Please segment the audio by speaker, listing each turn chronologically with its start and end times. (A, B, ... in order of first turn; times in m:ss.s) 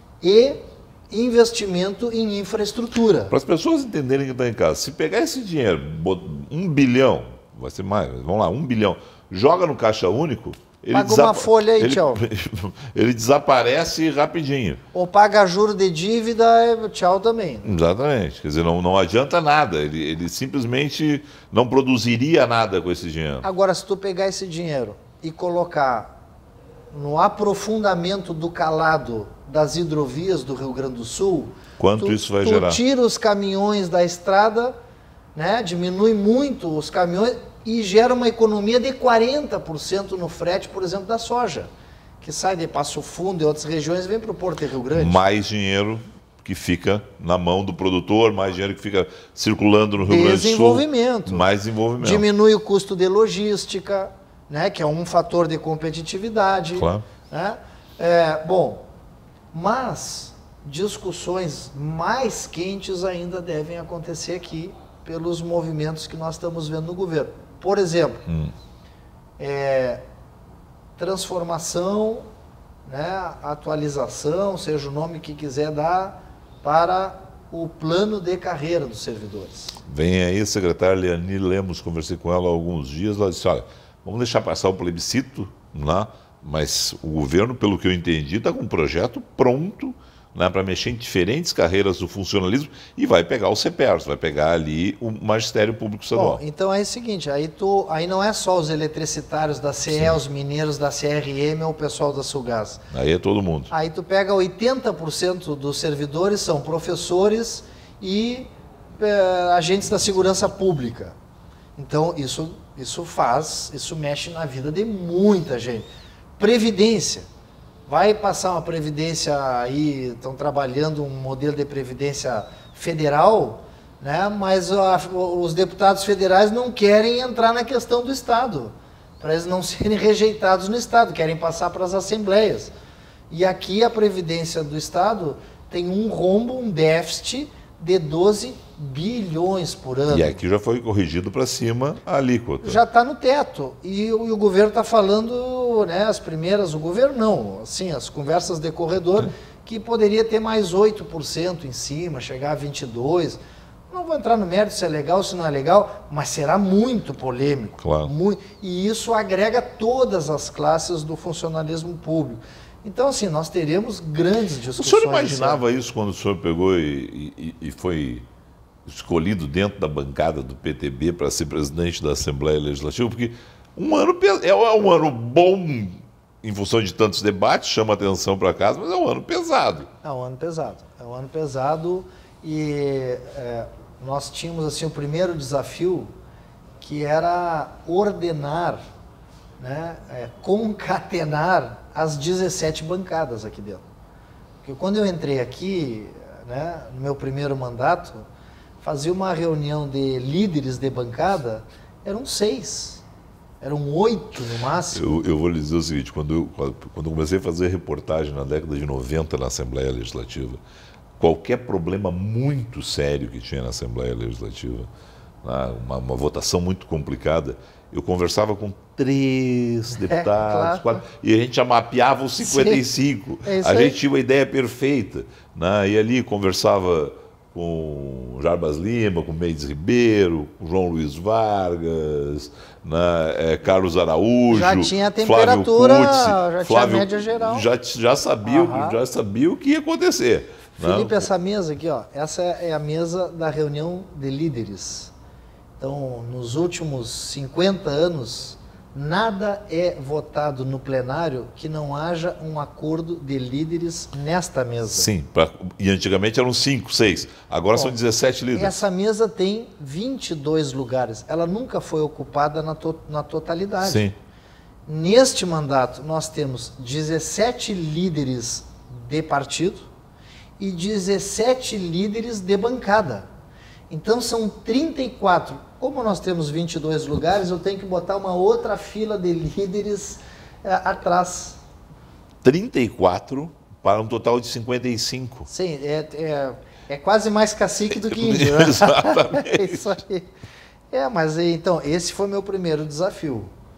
0:00.2-0:03.3 A
0:03.3-0:14.8 B
0:10.9-0:12.2 A
0:14.9-0:17.8 A
0:17.6-0:23.4 B
0:23.4-0:26.1 A
0:26.9-0:34.8 A
0:31.8-0:32.8 B
0:35.3-0:41.7 A
0:42.2-0:45.2 A
0:44.9-0:52.2 B
0:50.0-0:51.5 A
0:52.0-0:58.8 A
0:56.8-0:57.0 B
0:59.5-1:08.2 A
1:08.3-1:08.5 B
1:09.4-1:10.0 A
1:11.0-1:12.3 A
1:12.8-1:19.8 A
1:19.8-1:36.4 B
1:36.1-1:42.8 A
1:39.9-1:40.2 B
1:42.9-1:43.7 B
1:43.7-1:51.2 A
1:51.8-1:55.9 A
1:56.4-1:57.3 A
1:57.9-2:12.7 A
2:13.3-2:20.4 A
2:20.1-2:22.8 B
2:22.6-2:45.6 A
2:37.8-2:38.1 B
2:44.8-2:48.2 B
2:48.8-2:59.9 B
3:00.0-3:06.1 A
3:06.8-3:08.8 A
3:09.6-3:13.8 A
3:14.6-3:18.2 A
3:18.8-3:23.0 A
3:23.6-3:25.1 A
3:24.9-3:30.6 B
3:31.2-3:34.9 B
3:35.4-4:01.3 B
3:40.0-3:41.0 A
3:42.4-3:42.8 A
3:43.4-3:44.0 A
3:54.5-3:57.7 A
3:58.4-3:59.0 A
4:00.8-4:05.1 A
4:05.8-4:15.1 A
4:15.0-4:18.8 B
4:18.5-4:24.1 A
4:23.8-4:24.1 B
4:24.9-4:29.9 A
4:30.6-4:33.3 A
4:33.9-4:41.6 A
4:42.4-4:45.5 B
4:45.5-4:50.3 A
4:47.9-4:49.8 B
4:50.9-4:53.5 A